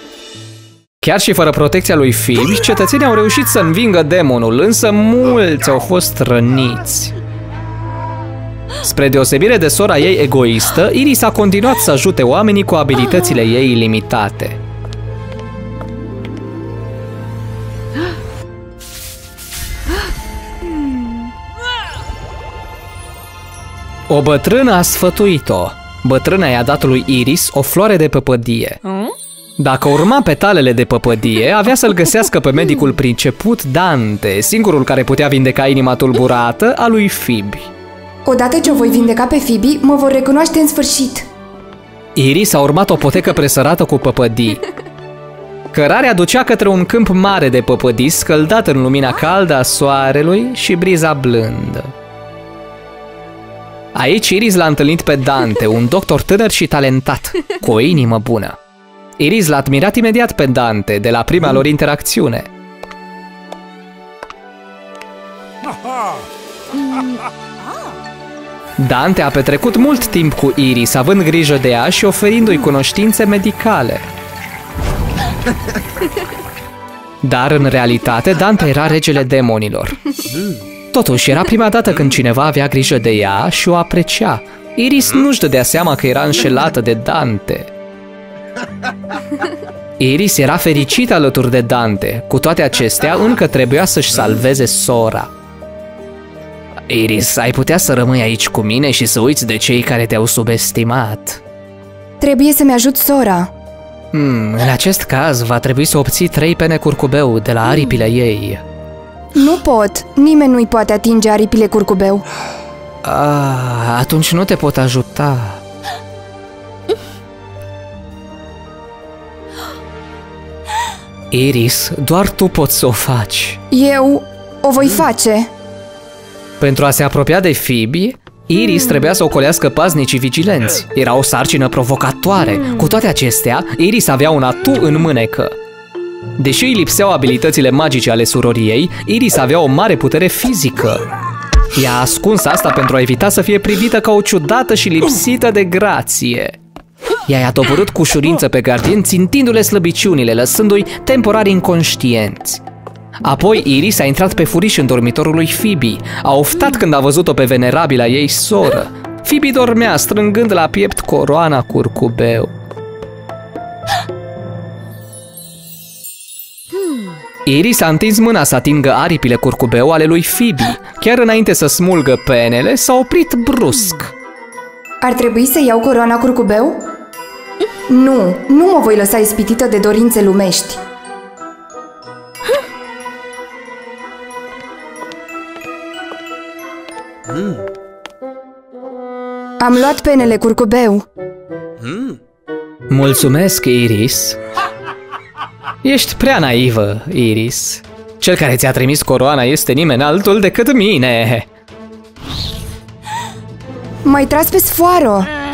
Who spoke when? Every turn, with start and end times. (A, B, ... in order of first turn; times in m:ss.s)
0:01.0-0:07.1 A
0:08.8-0:14.6 A
0:24.1-0:28.8 A
0:29.6-0:37.7 A
0:38.2-0:41.3 B
0:42.1-0:44.6 A
0:45.7-0:51.9 A
0:53.9-0:58.6 A
0:59.2-1:02.5 A
1:08.8-1:14.1 A
1:17.2-1:20.0 A
1:20.9-1:27.7 A
1:30.0-1:35.3 A
1:36.9-1:41.4 A
1:42.2-1:43.5 B
1:44.1-1:48.6 A
1:49.3-1:52.2 B
1:53.0-1:55.6 A
2:01.3-2:03.6 A
2:03.7-2:05.5 B
2:06.6-2:15.6 A
2:16.4-2:21.0 A
2:21.7-2:26.6 A
2:27.3-2:32.6 A
2:33.2-2:42.5 A
2:47.4-2:54.1 A
2:55.0-2:56.8 B
2:57.9-3:00.8 B
3:09.6-3:11.0 B
3:12.9-3:14.4 A
3:15.8-3:21.5 A
3:24.0-3:25.3 B